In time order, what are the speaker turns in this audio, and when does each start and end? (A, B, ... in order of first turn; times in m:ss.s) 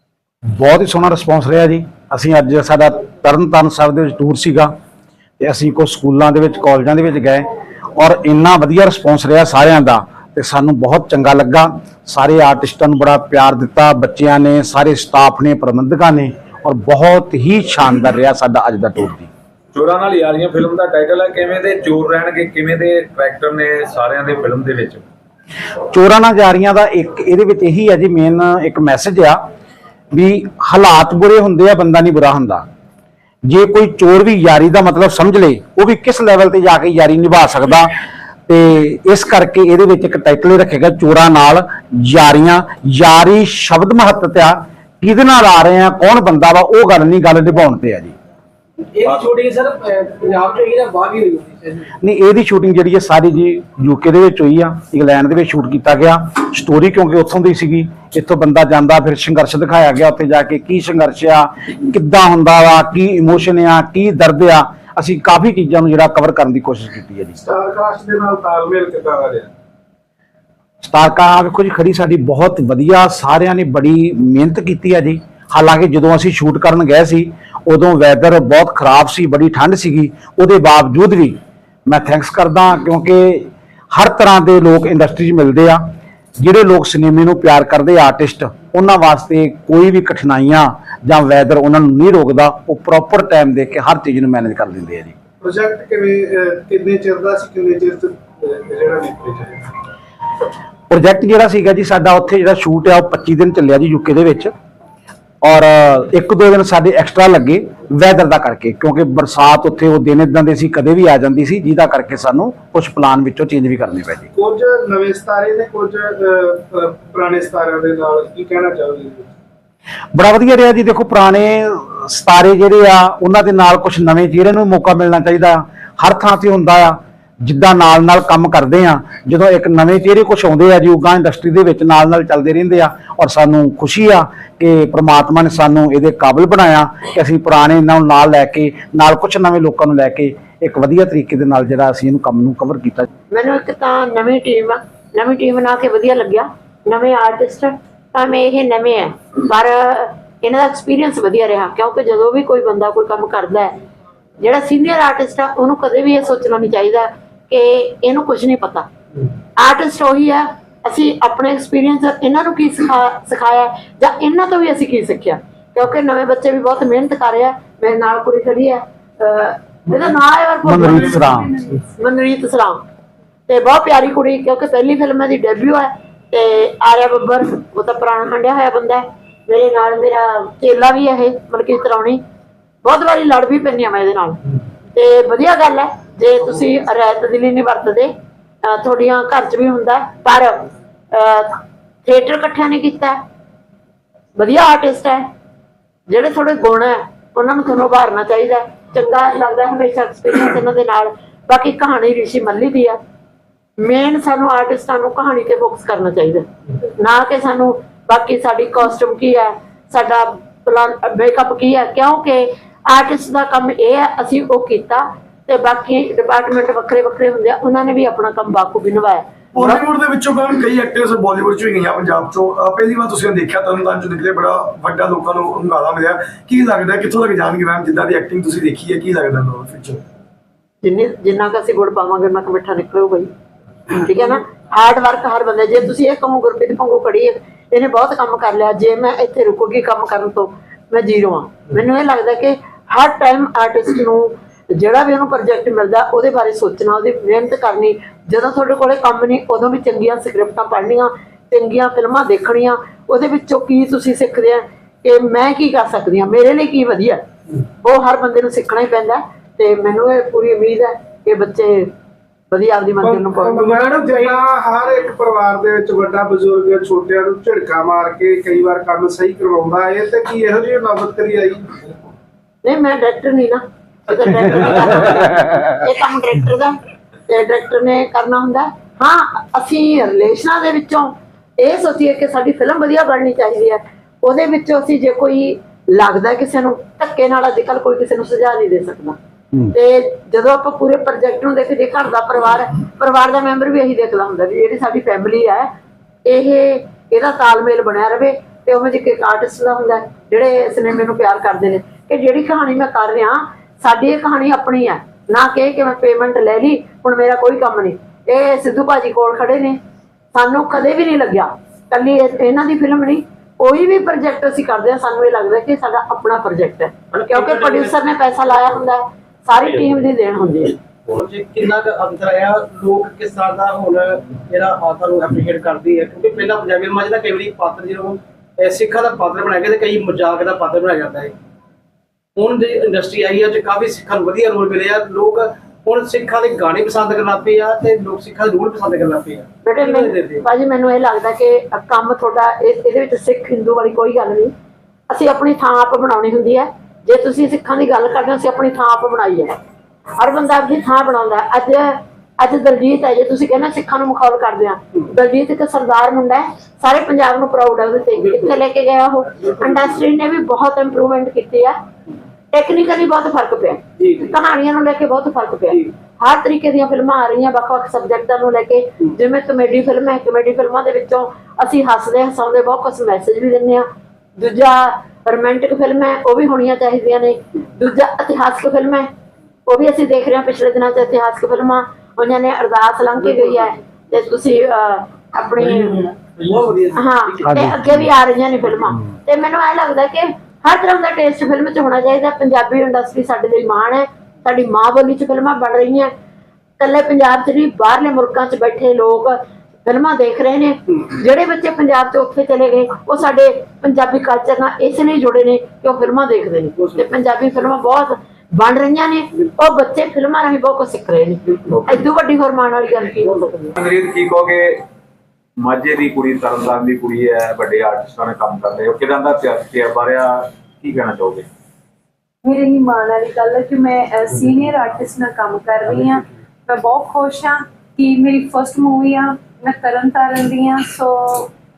0:00.5-0:04.7 A
0:05.4-0:19.3 A
0:19.7-0:25.0 B
0:25.9-0:29.4 A
0:30.1-0:32.6 A
0:33.5-0:37.9 A
0:38.5-0:48.1 A
0:48.9-0:51.9 C
0:52.0-1:07.4 A
1:07.4-1:09.5 D
1:10.8-1:25.8 A
1:26.4-1:35.1 A
1:35.4-1:39.6 D
1:40.9-1:44.5 A
1:45.4-1:54.3 A
1:54.3-1:59.3 D
2:00.1-2:23.1 A
2:23.3-2:33.7 E
2:34.4-2:38.9 E
2:39.6-2:52.8 E
2:50.6-2:51.6 A
2:53.5-3:02.2 E
3:02.8-3:04.4 E
3:04.9-3:08.1 E
3:08.6-3:13.2 E
3:14.4-3:15.2 E
3:16.1-3:23.0 E
3:23.8-3:26.4 E
3:27.0-3:39.3 E
3:39.5-3:50.0 F
3:50.8-3:53.3 E
3:53.9-4:17.2 E
4:17.8-4:21.9 E
4:22.5-4:23.7 E
4:23.0-4:31.9 D
4:23.6-4:24.4 C
4:32.6-4:36.8 E
4:37.3-4:49.2 E
4:49.7-4:55.7 E
4:56.2-5:09.8 E
5:10.3-5:20.8 E
5:17.1-5:18.0 C
5:21.1-5:31.3 C
5:32.4-5:40.4 C
5:39.6-5:44.5 E
5:45.1-5:49.6 E
5:50.2-6:01.8 E
5:58.2-5:58.5 C
6:02.5-6:13.8 E
6:04.0-6:04.3 C
6:14.4-6:19.1 E
6:19.7-6:26.1 E
6:26.4-6:27.3 C
6:26.9-6:36.1 E
6:27.4-6:27.9 A
6:36.8-6:53.7 E
6:53.8-6:54.8 B
6:55.6-7:01.5 B
7:02.4-7:11.5 G